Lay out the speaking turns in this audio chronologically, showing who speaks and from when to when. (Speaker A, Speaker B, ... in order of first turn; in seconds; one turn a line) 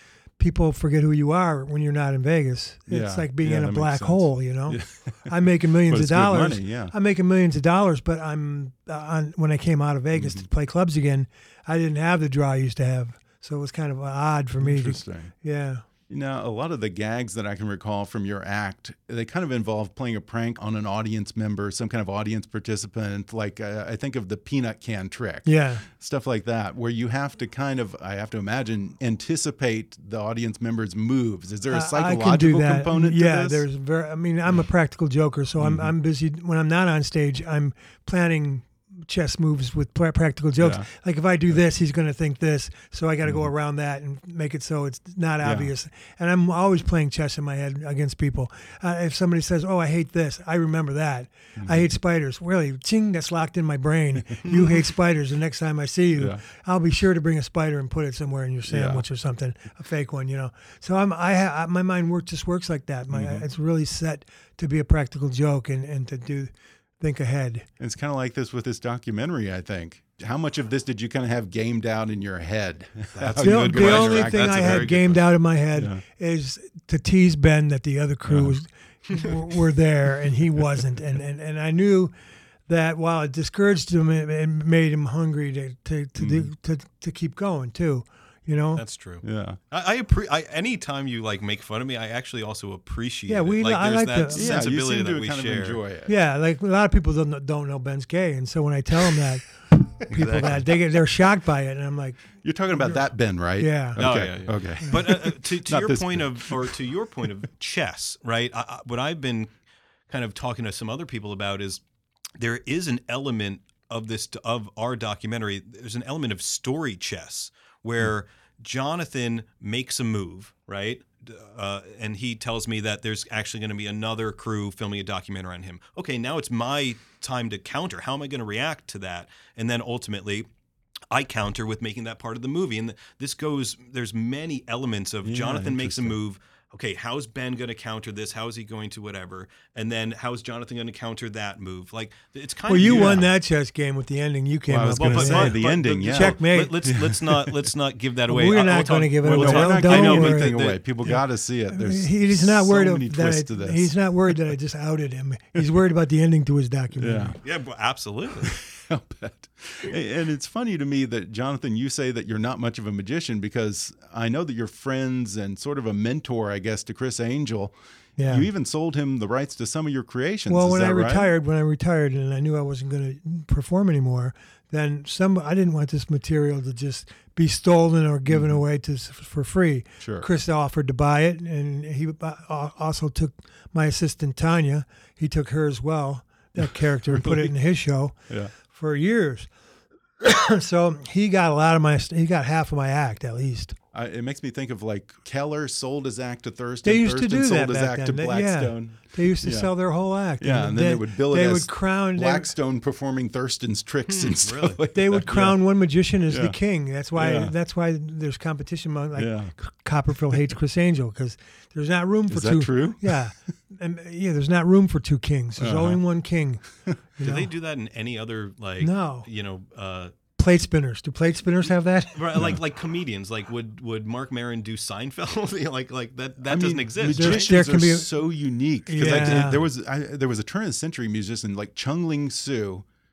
Speaker A: 0.4-15.8
Speaker B: 2.9-6.9
Speaker B: 10.1-10.5
Speaker B: 14.6-15.3
Speaker B: 16.1-33.6
Speaker A: 25.4-25.9
Speaker A: 31.7-67.7
Speaker B: 35.6-35.9
Speaker B: 40.6-40.9
Speaker B: 43.2-43.5
Speaker B: 45.4-45.7
Speaker B: 51.6-51.9
Speaker B: 56.2-56.4
Speaker B: 58.7-59.0
Speaker B: 63.1-63.5
Speaker B: 67.8-75.0
Speaker C: 73.2-75.3
Speaker A: 73.4-82.1
Speaker B: 75.8-76.0
Speaker B: 78.3-78.5
Speaker A: 82.7-88.8
Speaker B: 86.2-86.5
Speaker C: 88.8-95.8
Speaker B: 89.2-89.6
Speaker A: 93.3-94.6
Speaker B: 94.3-96.1
Speaker A: 96.1-103.1
Speaker C: 100.1-100.7
Speaker B: 102.4-106.8
Speaker A: 103.6-104.0
Speaker C: 104.0-109.5
Speaker C: 110.1-111.8
Speaker C: 112.4-130.5
Speaker C: 131.1-143.2
Speaker B: 135.2-136.2
Speaker A: 142.7-146.8
Speaker B: 142.8-143.3
Speaker B: 144.7-147.7
Speaker C: 145.0-151.1
Speaker A: 148.3-150.6
Speaker B: 149.3-153.9
Speaker A: 151.7-157.4
Speaker B: 157.0-157.4
Speaker C: 157.4-158.6
Speaker B: 158.4-171.3
Speaker A: 168.2-168.5
Speaker A: 170.5-189.5
Speaker B: 178.3-178.6
Speaker B: 180.0-180.3
Speaker B: 186.6-187.5
Speaker A: 190.2-193.8
Speaker B: 193.9-199.8
Speaker A: 196.8-202.5
Speaker B: 200.4-205.6
Speaker C: 204.1-204.8
Speaker A: 204.9-217.5
Speaker B: 206.3-206.6
Speaker B: 207.1-207.5
Speaker B: 209.2-209.5
Speaker B: 212.3-213.2
Speaker B: 215.6-216.0
Speaker C: 217.2-220.1
Speaker A: 218.8-219.3
Speaker A: 220.4-222.5
Speaker C: 222.2-227.5
Speaker B: 226.4-232.9
Speaker A: 227.1-228.1
Speaker A: 228.9-229.6
Speaker C: 229.0-229.4